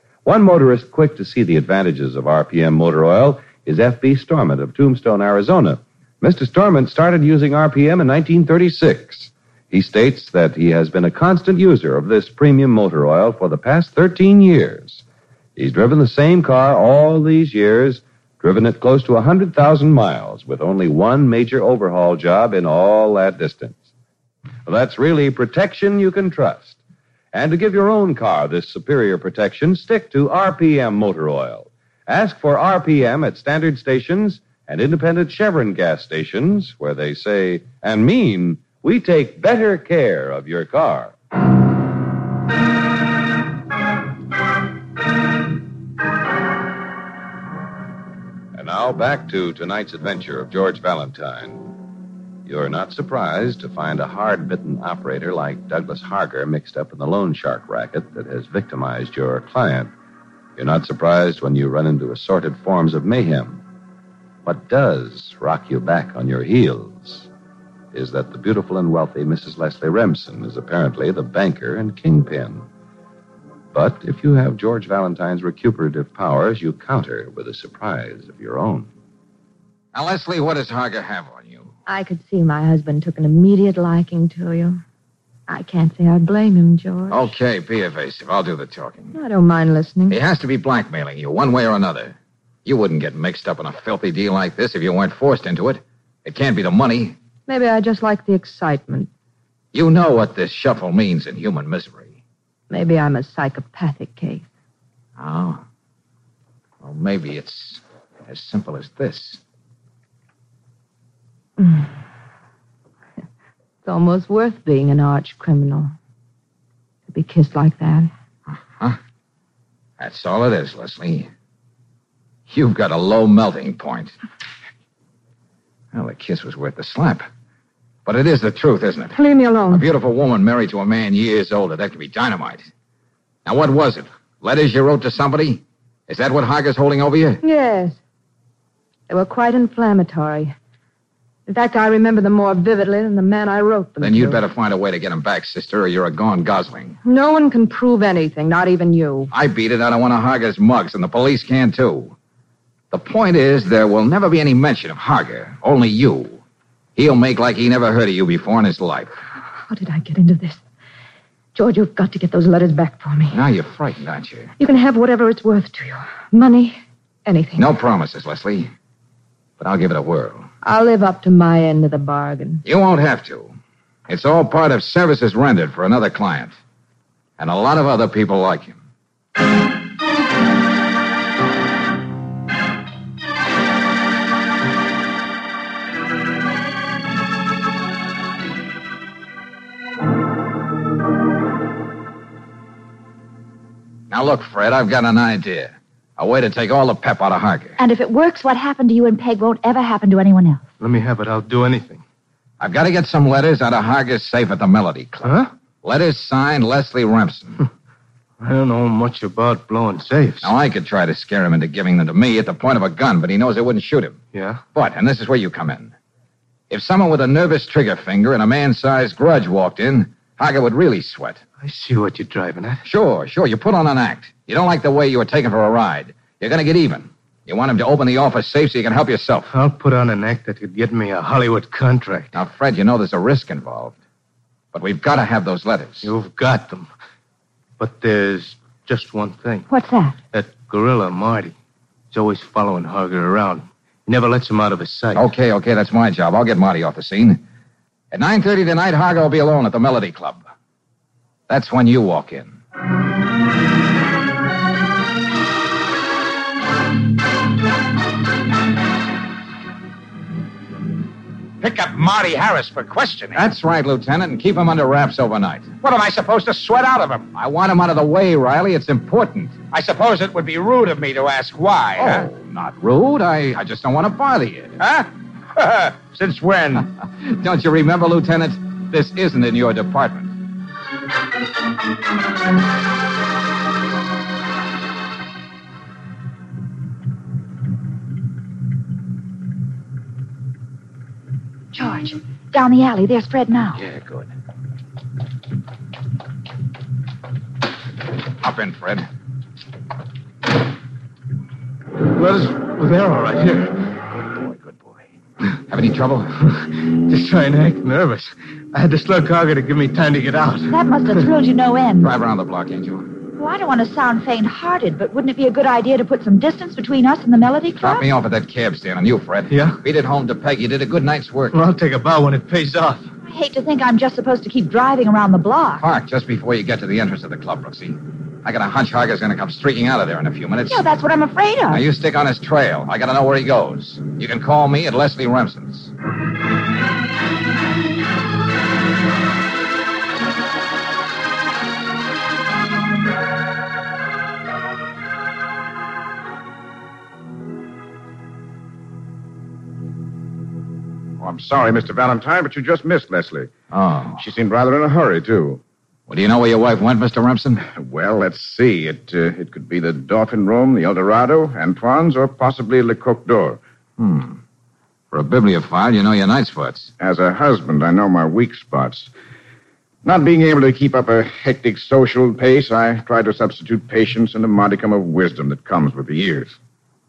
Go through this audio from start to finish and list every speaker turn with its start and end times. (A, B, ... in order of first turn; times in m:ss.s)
0:00.2-0:15.0 A
0:15.6-0:23.8 A
0:24.6-0:26.8 A
0:27.3-0:41.2 A
0:48.6-0:51.7 A
0:52.4-0:59.9 A
1:00.6-1:03.6 A
1:04.4-1:07.3 A
1:07.9-1:12.7 A
1:13.7-1:18.9 A
1:19.9-1:21.7 B
1:21.9-1:24.8 C
1:25.5-1:27.3 C
1:27.1-1:29.2 B
1:29.1-1:30.2 C
1:30.1-1:37.2 B
1:37.5-1:39.1 C
1:39.7-1:42.1 B
1:42.7-1:44.5 C
1:45.2-1:45.6 B
1:46.8-1:49.4 B
1:51.6-1:51.9 C
1:53.8-1:55.9 C
1:57.1-1:58.1 C
1:58.5-1:59.0 B
2:00.0-2:01.3 B
2:02.5-2:04.1 B
2:05.9-2:07.3 B
2:08.0-2:12.7 B
2:09.1-2:09.9 C
2:13.4-2:17.4 B
2:17.4-2:18.0 C
2:19.1-2:20.6 C
2:21.5-2:24.4 C
2:24.0-2:27.0 B
2:27.0-2:29.3 C
2:29.3-2:32.1 B
2:32.9-2:36.4 B
2:37.0-2:39.2 B
2:39.7-2:40.6 C
2:41.6-2:43.4 C
2:43.3-2:44.5 B
2:44.6-2:47.6 C
2:47.6-2:48.7 B
2:49.6-2:50.5 B
2:50.6-2:52.6 C
2:52.6-2:53.5 B
2:54.1-2:56.6 B
2:57.4-2:58.8 B
3:14.1-3:17.8 B
3:17.8-3:20.6 D
3:20.8-3:22.0 E
3:22.6-3:27.6 B
3:25.2-3:25.5 E
3:28.4-3:30.5 E
3:30.4-3:34.2 B
3:34.3-3:34.6 E
3:34.7-3:35.9 B
3:36.7-3:41.4 B
3:41.6-3:42.8 E
3:42.8-3:49.5 B
3:49.5-3:52.3 E
3:52.3-3:54.0 B
3:54.7-3:56.1 B
3:56.0-3:56.9 E
3:57.8-3:59.7 E
3:59.7-4:00.2 D
4:00.3-4:01.6 E
4:02.1-4:05.3 E
4:05.1-4:07.4 B
4:08.1-4:10.4 B
4:11.5-4:12.6 B
4:21.6-4:23.4 F
4:23.4-4:25.7 B
4:25.8-4:27.3 F
4:27.3-4:29.6 B
4:29.7-4:32.3 F
4:32.0-4:34.8 B
4:34.8-4:36.9 F
4:36.8-4:40.3 B
4:51.7-4:53.8 D
4:53.8-4:54.3 B
4:58.4-4:59.1 B
5:02.2-5:03.7 E
5:04.4-5:04.9 B
5:05.7-5:06.4 B
5:07.1-5:10.7 E
5:10.7-5:12.1 D
5:12.0-5:13.1 B
5:13.4-5:18.0 D
5:17.8-5:21.6 B
5:19.5-5:19.8 E
5:21.5-5:23.0 E
5:23.3-5:25.8 D
5:25.8-5:30.8 B
5:30.7-5:31.8 D
5:31.7-5:35.9 B
5:51.2-5:53.5 G
5:53.7-5:54.2 B
5:54.2-5:55.6 G
5:56.1-5:57.6 B
5:57.7-6:03.6 G
6:04.0-6:04.4 B
6:05.1-6:06.9 B
6:07.0-6:09.1 G
6:10.0-6:16.6 G